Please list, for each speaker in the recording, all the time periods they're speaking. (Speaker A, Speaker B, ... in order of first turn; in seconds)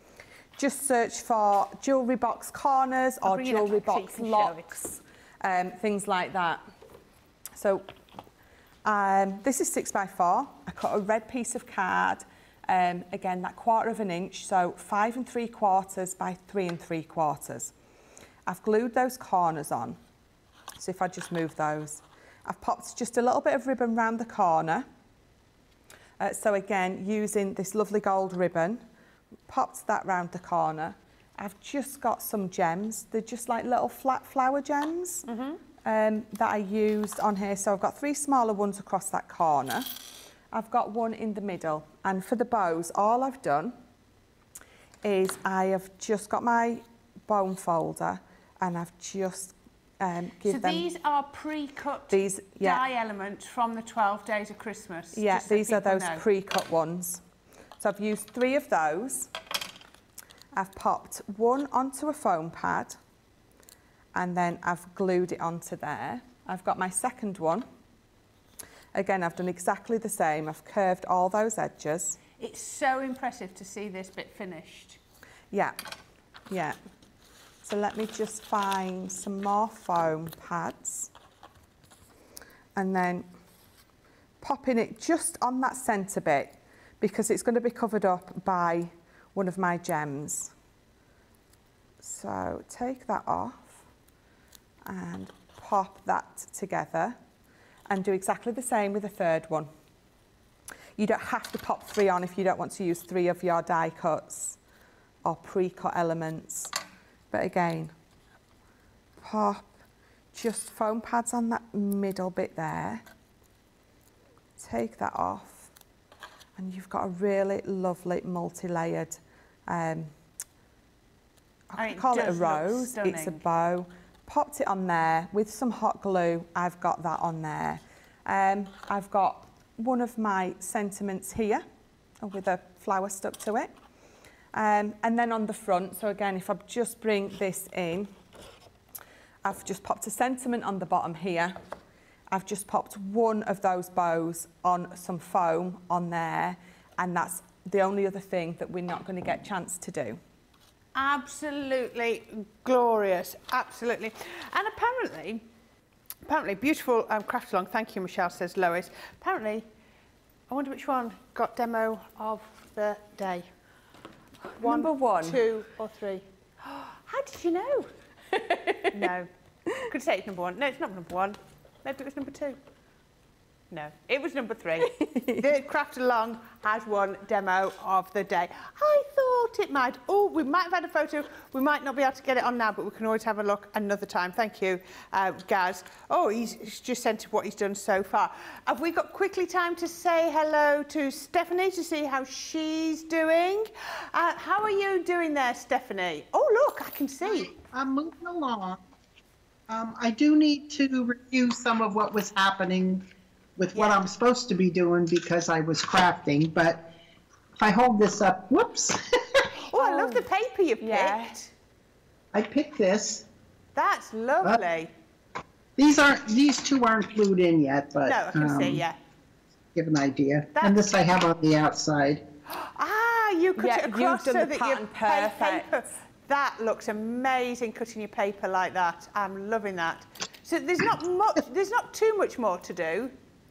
Speaker A: 0.6-6.6, 7.5-7.9, 8.8-17.7, 18.4-20.0, 20.8-24.9, 26.2-28.8, 29.5-35.2, 35.8-39.9, 40.5-43.7, 45.0-50.9, 52.1-52.8, 55.1-57.2, 57.8-59.3, 60.5-63.0, 64.1-67.7, 68.9-72.2, 75.5-75.8, 76.5-76.8, 77.6-81.1, 82.7-83.3, 84.4-90.5, 92.0-93.8, 94.8-97.2, 97.9-99.7, 101.0-104.6, 105.2-106.7, 107.3-107.9, 109.2-109.7, 110.3-113.0, 114.6-115.7, 116.5-120.1, 121.7-131.6, 132.2-133.7, 134.5-138.1, 139.4-141.6, 142.3-150.2, 164.6-165.4, 168.3-169.1, 174.9-175.4, 209.8-210.2, 210.8-211.3, 223.6-225.9
Speaker B: 3.2-4.7, 35.2-35.6, 50.4-56.2, 72.4-75.0, 121.8-123.4, 150.9-155.4, 156.2-159.7, 160.5-163.5, 164.5-167.9, 168.9-169.3, 169.8-172.6, 173.7-197.5, 203.7-204.1, 209.6-211.5, 213.7-214.9, 218.0-219.0, 222.5-233.1
Speaker C: 197.2-198.8, 199.7-203.0, 203.6-206.9, 207.6-209.4, 212.3-213.2, 215.8-218.8, 219.7-222.2